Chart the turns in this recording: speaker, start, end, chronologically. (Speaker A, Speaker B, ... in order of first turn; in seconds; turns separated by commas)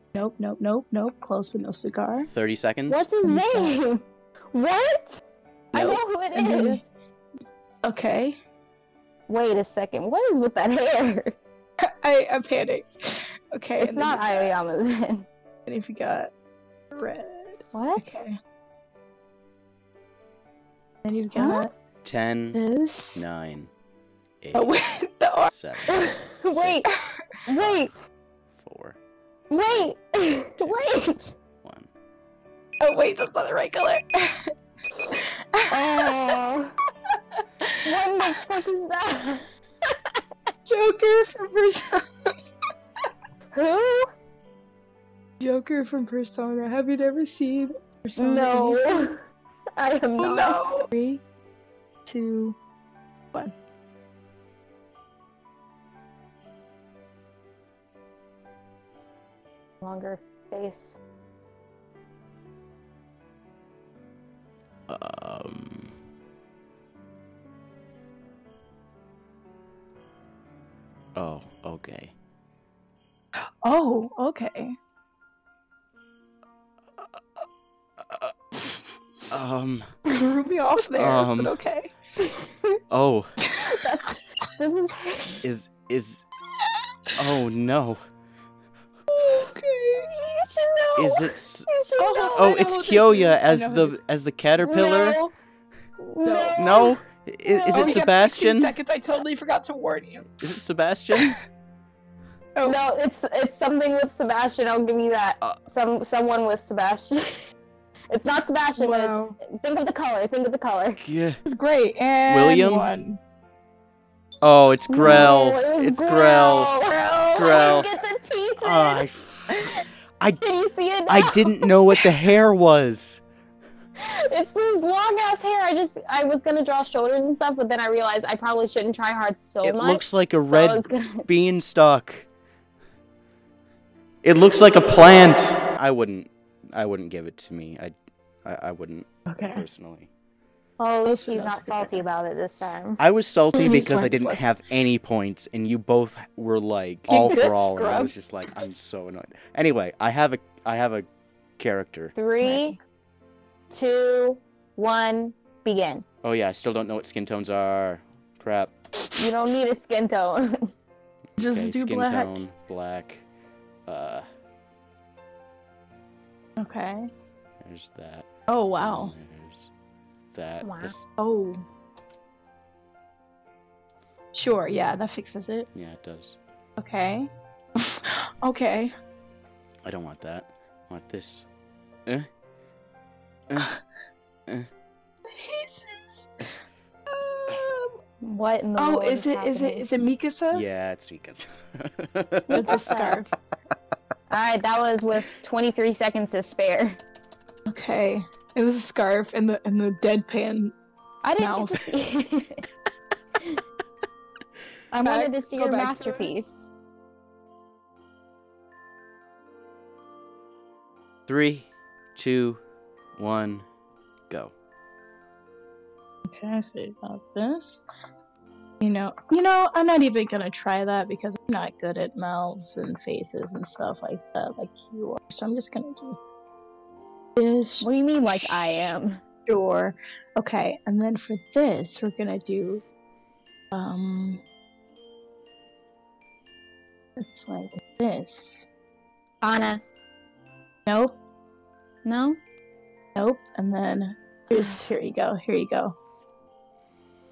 Speaker A: 0.1-2.3, Speaker B: 2.2-3.1, Speaker C: 2.9-5.2, Speaker A: 3.2-3.8, Speaker C: 5.7-6.8, Speaker A: 5.7-6.8, Speaker A: 7.8-8.4, Speaker C: 9.3-11.3, Speaker A: 11.8-14.5, Speaker C: 13.8-15.3, Speaker A: 15.7-16.3, Speaker A: 16.9-18.4, Speaker C: 17.7-18.2, Speaker A: 21.0-21.7, Speaker C: 21.3-21.7, Speaker B: 22.0-22.6, Speaker A: 22.5-23.2, Speaker B: 23.1-23.7, Speaker B: 24.4-24.7, Speaker A: 24.5-25.5, Speaker B: 25.5-26.8, Speaker C: 25.9-26.9, Speaker C: 27.4-27.9, Speaker B: 28.6-29.0, Speaker C: 29.5-31.4, Speaker B: 30.6-30.9, Speaker B: 31.6-31.9, Speaker A: 32.8-34.5, Speaker A: 35.1-36.3, Speaker C: 35.7-36.7, Speaker A: 37.6-38.5, Speaker C: 37.8-40.1, Speaker A: 40.7-42.3, Speaker C: 43.5-44.1, Speaker A: 45.4-49.1, Speaker C: 48.2-49.2, Speaker C: 49.8-50.6, Speaker A: 50.2-51.2, Speaker A: 52.0-52.6, Speaker C: 59.8-61.0, Speaker B: 64.9-65.9, Speaker B: 71.1-72.1, Speaker A: 73.6-74.7, Speaker B: 78.0-78.3, Speaker A: 78.5-79.3, Speaker B: 79.3-79.9, Speaker A: 80.1-81.9, Speaker B: 80.9-81.5, Speaker C: 82.2-82.8, Speaker B: 82.9-83.4, Speaker A: 83.4-83.8, Speaker C: 83.6-85.4, Speaker B: 85.4-86.2, Speaker B: 87.2-88.0, Speaker A: 89.1-90.2, Speaker C: 90.0-92.5, Speaker B: 91.0-91.7, Speaker A: 92.0-94.0, Speaker B: 92.3-95.2, Speaker C: 94.6-95.3, Speaker C: 96.0-98.0, Speaker A: 96.2-96.7, Speaker B: 96.5-98.7, Speaker A: 97.7-100.6, Speaker B: 100.4-101.4, Speaker C: 102.6-107.4, Speaker C: 108.1-111.0, Speaker A: 108.8-109.4, Speaker B: 111.0-111.4, Speaker A: 111.5-113.2, Speaker B: 112.3-112.9, Speaker B: 114.4-116.7, Speaker C: 114.9-119.0, Speaker A: 115.0-115.3, Speaker A: 116.9-117.7, Speaker B: 117.3-117.9, Speaker B: 118.6-120.4, Speaker C: 120.4-121.7, Speaker B: 121.1-123.2, Speaker C: 124.0-131.3, Speaker B: 129.6-132.3, Speaker B: 134.2-137.9, Speaker B: 138.4-140.1, Speaker A: 139.3-139.6, Speaker C: 140.8-143.0, Speaker A: 141.1-142.0, Speaker B: 143.0-151.1, Speaker A: 143.6-144.5, Speaker A: 147.1-148.1, Speaker B: 151.6-152.1, Speaker C: 152.2-152.8, Speaker A: 152.4-152.8, Speaker C: 153.7-156.0, Speaker B: 156.2-158.7, Speaker C: 159.2-160.7, Speaker A: 161.4-162.4, Speaker B: 161.4-163.2, Speaker B: 163.8-164.2, Speaker A: 166.6-167.1, Speaker B: 167.6-168.3, Speaker A: 168.5-169.1, Speaker B: 168.8-169.7, Speaker B: 170.3-171.1, Speaker C: 170.6-171.0, Speaker A: 171.2-171.6, Speaker A: 174.3-175.7, Speaker B: 175.7-176.4, Speaker A: 176.8-178.9, Speaker B: 179.8-181.4, Speaker A: 185.3-186.5, Speaker A: 187.1-188.0, Speaker C: 188.2-189.8, Speaker A: 188.8-190.6, Speaker B: 190.5-192.8, Speaker C: 192.5-193.2, Speaker A: 192.5-193.3, Speaker C: 194.3-197.0, Speaker A: 197.7-200.7, Speaker C: 201.2-202.7, Speaker A: 201.4-201.9, Speaker C: 204.9-206.7, Speaker A: 205.0-206.3, Speaker B: 211.3-212.6, Speaker B: 213.2-213.7, Speaker A: 216.3-217.8, Speaker A: 218.8-226.2, Speaker A: 227.3-228.9, Speaker C: 227.8-229.2, Speaker A: 229.4-232.8, Speaker A: 233.7-234.4, Speaker A: 237.2-238.7, Speaker C: 239.4-239.8, Speaker A: 240.9-241.2, Speaker C: 242.0-242.4, Speaker A: 243.1-246.0